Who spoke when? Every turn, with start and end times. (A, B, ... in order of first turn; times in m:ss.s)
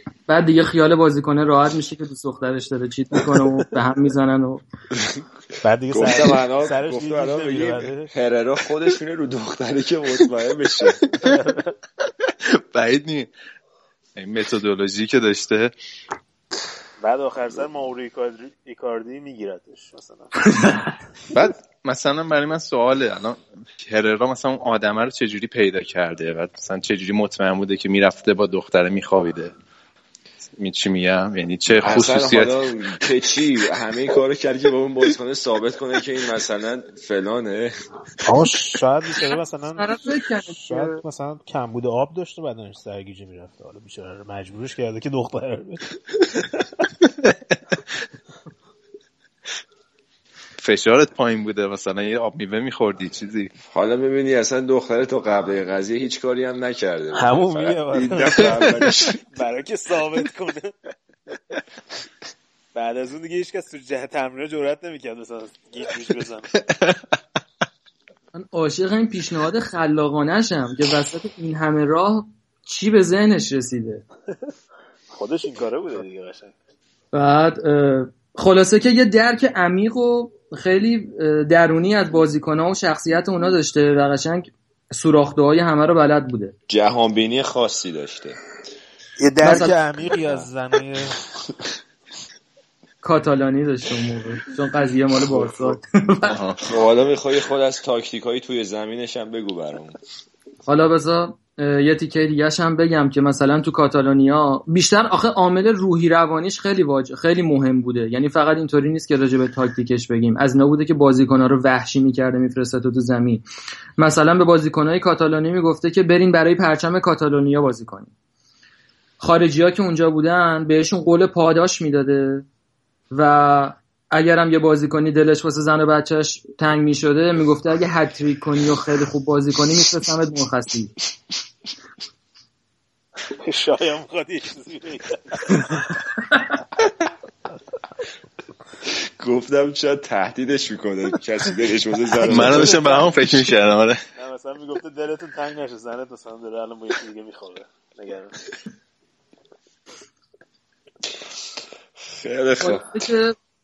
0:00.3-0:04.6 A
0:05.6-0:08.1 B
0:05.9-0:11.2 C
0:11.2-0:11.7 B
0:12.5-0:13.3 D
0:14.2-0:15.7 D
0:17.0-0:20.7 B
0:21.3-0:29.6 D
0:30.6-0:32.6 D
0:31.8-0:37.7 C
0:38.2-0:46.5 B
0:39.8-0:41.0 A
0:50.6-0:53.5 D
0:53.7-0:59.2 C
0:57.1-1:00.8 B
1:02.8-1:06.7 B
1:08.3-1:14.0 A
1:15.1-1:16.5 B
1:17.1-1:26.6 A
1:26.7-1:28.4 C
1:29.2-1:31.2 B
1:29.4-1:30.0 A
1:33.0-1:36.3 A
1:36.2-1:36.6 D
1:36.6-1:40.0 C
1:40.7-1:53.4 A
1:54.0-1:58.1 A
1:59.2-2:02.5 A
2:03.1-2:10.9 A
2:13.4-2:15.9 B
2:18.9-2:23.1 C
2:22.2-2:24.0 D
2:24.2-2:28.5 B
2:32.1-2:32.9 C
2:32.6-2:33.4 A